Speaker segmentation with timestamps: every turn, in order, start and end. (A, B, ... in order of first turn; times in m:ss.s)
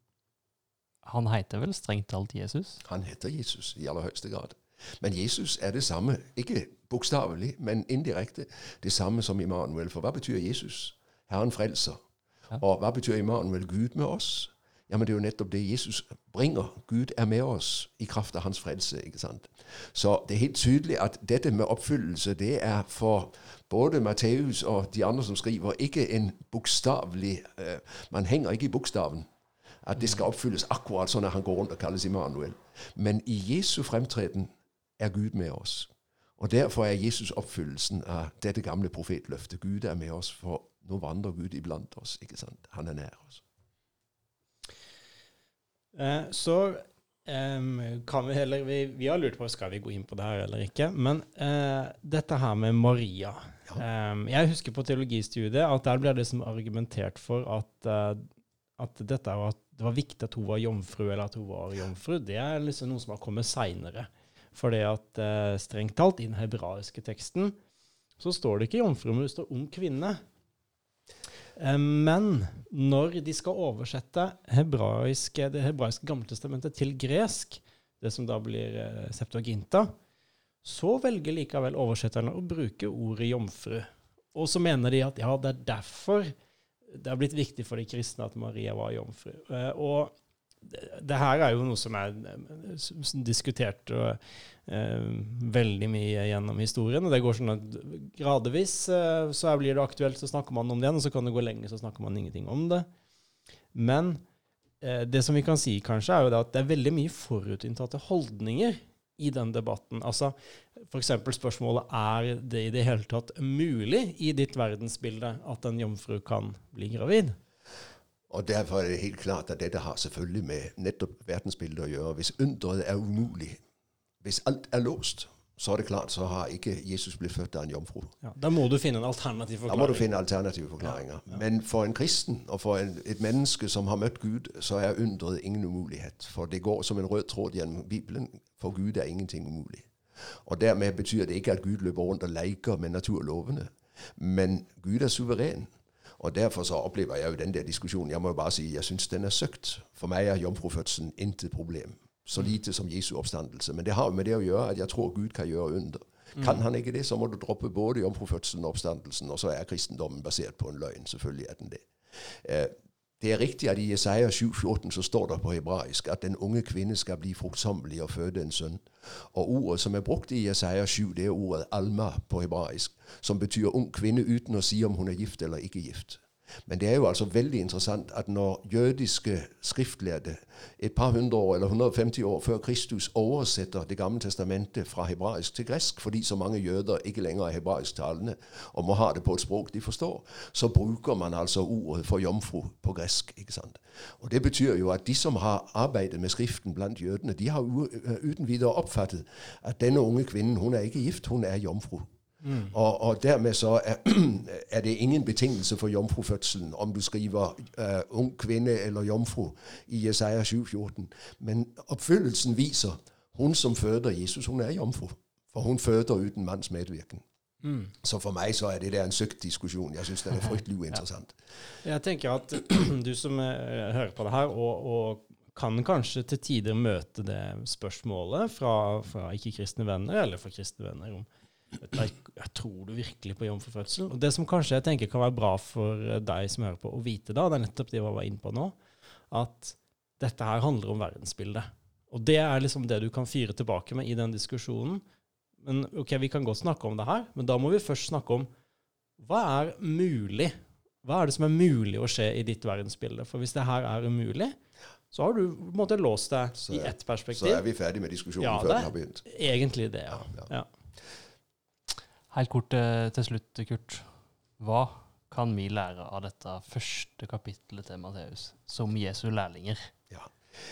0:01.0-0:02.8 A
0:02.8-0:12.0 B
0:12.5-0:29.2 B
0:29.8-0:43.4 B
0:45.9-0:58.2 C
0:58.8-1:07.5 C
1:08.2-1:10.2 C
1:11.6-1:19.9 C
1:20.6-1:26.3 C
1:26.9-1:30.1 C
1:30.6-1:42.9 C
1:43.7-1:44.2 C
1:44.8-1:57.4 C
1:58.3-2:03.6 B
2:04.2-2:08.1 B
2:08.2-2:10.1 C
2:09.7-2:19.9 B
2:20.4-2:25.7 B
2:26.2-2:41.8 B
2:42.4-3:22.1 B
3:22.4-3:22.7 C
3:22.7-3:37.2 B
3:37.6-3:37.9 C
3:38.0-3:41.3 B
3:41.8-3:51.3 C
3:51.8-3:58.8 C
3:59.3-4:05.0 C
4:05.6-4:08.5 C
4:09.2-4:14.5 C
4:15.1-4:17.6 C
4:16.6-4:19.2 B
4:18.4-4:20.7 C
4:20.1-4:20.5 B
4:22.3-4:24.1 A
4:24.6-4:29.9 A